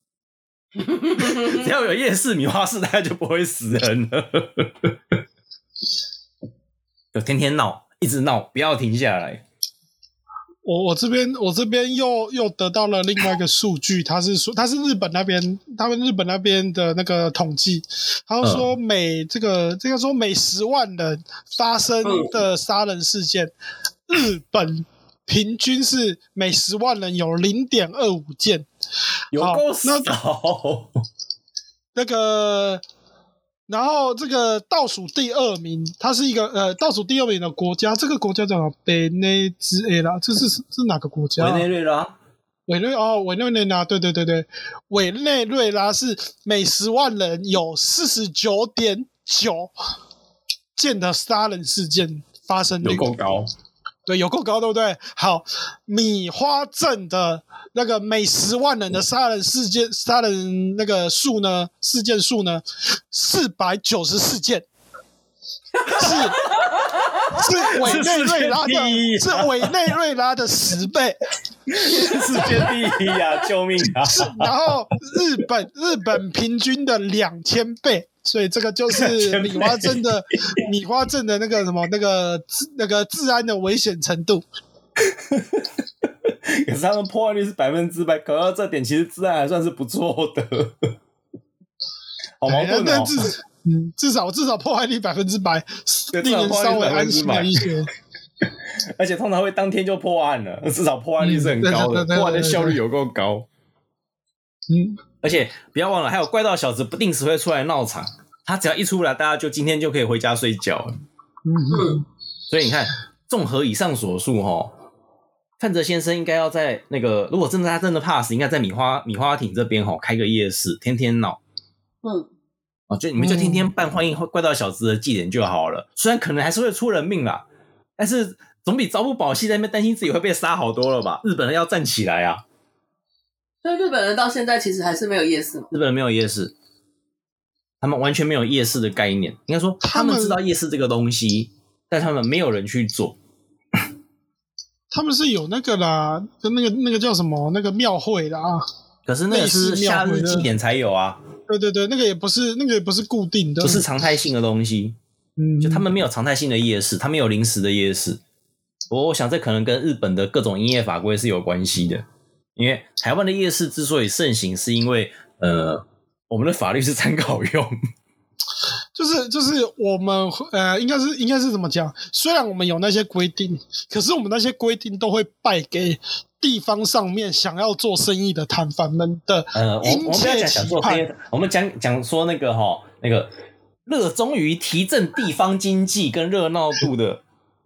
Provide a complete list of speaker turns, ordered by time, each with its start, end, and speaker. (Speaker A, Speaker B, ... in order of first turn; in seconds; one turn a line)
Speaker A: 0.9-5.1
Speaker A: 7.1-9.4
Speaker B: 10.6-23.5
Speaker A: 18.4-18.7
Speaker C: 22.0-22.3
Speaker B: 24.1-28.7
Speaker A: 29.3-31.0
Speaker B: 29.4-30.1
Speaker B: 31.9-32.8
Speaker B: 33.7-41.6
Speaker A: 41.4-42.1
Speaker B: 42.7-49.7
Speaker B: 50.8-53.1
Speaker A: 52.8-53.5
Speaker B: 54.0-64.7
Speaker A: 65.8-66.6
Speaker B: 65.9-66.5
Speaker A: 67.3-69.8
Speaker B: 67.3-71.2
Speaker A: 71.7-74.5
Speaker B: 74.0-84.4
Speaker A: 79.0-80.0
Speaker A: 85.0-85.7
Speaker A: 86.3-90.9
Speaker A: 92.4-93.3
Speaker B: 92.5-97.9
Speaker A: 96.1-97.6
Speaker A: 99.0-103.5
Speaker B: 101.2-102.8
Speaker B: 104.7-105.0
Speaker A: 105.2-111.0
Speaker B: 111.4-112.0
Speaker C: 111.7-112.0
Speaker A: 112.5-114.7
Speaker A: 115.6-121.4
Speaker A: 122.9-127.4
Speaker B: 123.2-123.7
Speaker A: 128.0-132.4
Speaker C: 133.6-135.7
Speaker A: 135.7-136.5
Speaker A: 137.8-143.2
Speaker B: 139.8-140.4
Speaker B: 144.9-148.6
Speaker A: 149.1-151.2
Speaker B: 149.3-150.5
Speaker B: 151.5-153.8
Speaker A: 153.6-155.0
Speaker B: 155.4-155.8
Speaker A: 155.6-158.2
Speaker A: 158.9-162.0
Speaker A: 162.6-167.7
Speaker B: 168.9-181.0
Speaker A: 179.5-183.3
Speaker A: 183.8-187.2